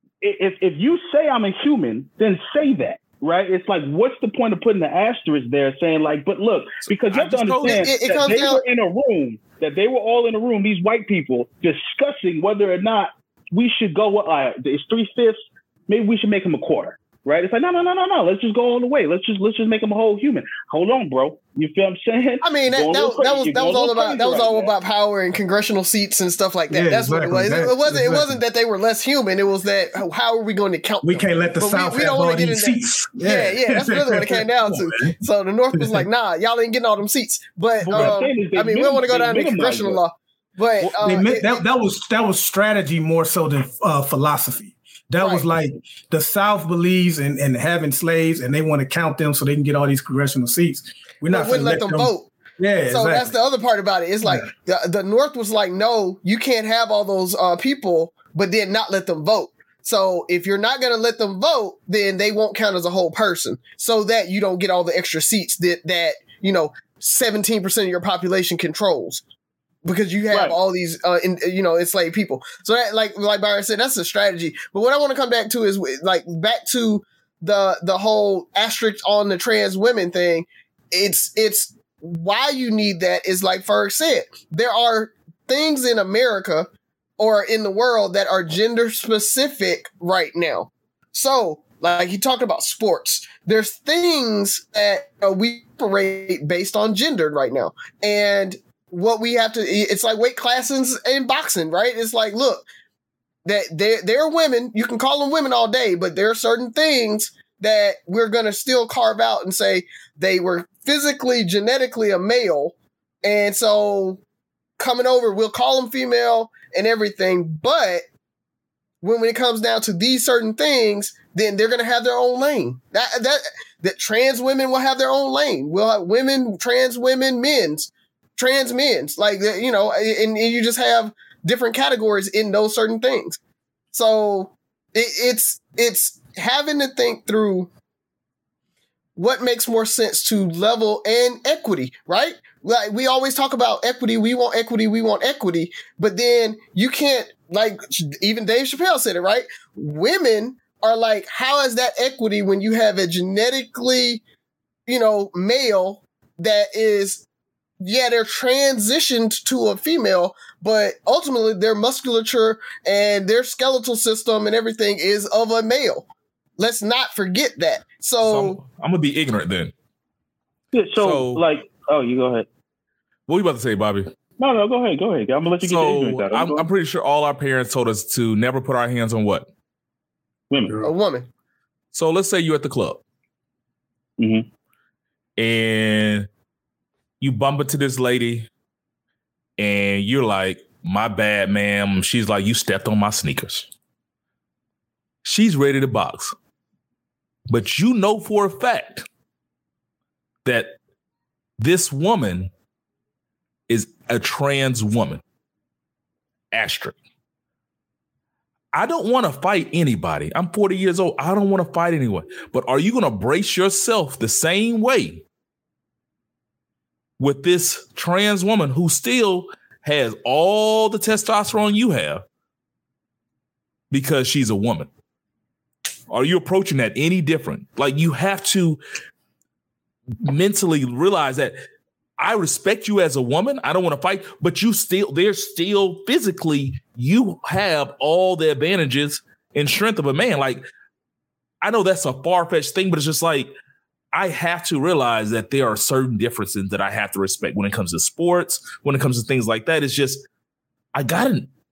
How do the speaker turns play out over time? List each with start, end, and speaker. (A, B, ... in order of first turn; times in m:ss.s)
0:00.2-0:24.7 A
0:06.9-0:07.9 B
0:07.6-0:08.6 C
0:22.4-0:41.6 C
0:26.7-0:28.4 D
0:31.0-0:35.1 D
0:35.7-0:36.0 D
0:37.8-0:40.0 A
0:40.8-0:53.3 D
0:45.2-0:45.4 C
0:51.3-0:52.3 C
0:52.9-1:09.2 C
1:09.8-1:42.7 C
1:10.3-1:10.6 A
1:43.4-1:54.2 C
1:54.8-1:58.0 C
1:59.0-2:13.4 C
2:13.9-2:17.7 C
2:19.2-2:34.2 C
2:34.9-2:37.2 C
2:37.8-2:46.1 C
2:46.6-2:48.6 C
2:48.2-2:49.7 B
2:50.7-2:52.5 A
2:51.0-2:51.4 B
2:53.3-2:54.1 B
2:54.4-2:56.7 A
2:55.6-2:59.5 B
3:00.5-3:00.8 A
3:00.8-3:01.3 C
3:01.9-3:03.0 B
3:04.2-3:04.4 A
3:05.4-3:06.3 B
3:07.2-3:08.5 B
3:09.6-3:13.7 B
3:15.2-3:16.3 B
3:17.5-3:19.0 B
3:20.4-3:20.8 B
3:21.6-3:22.5 B
3:23.7-3:25.2 B
3:26.5-3:27.0 B
3:28.7-3:35.2 B
3:37.2-3:42.2 B
3:43.9-3:44.9 B
3:46.1-3:48.8 B
3:50.2-3:51.6 B
3:52.2-4:00.6 B
4:01.6-4:03.5 B
4:04.1-4:10.2 B
4:10.9-4:11.5 B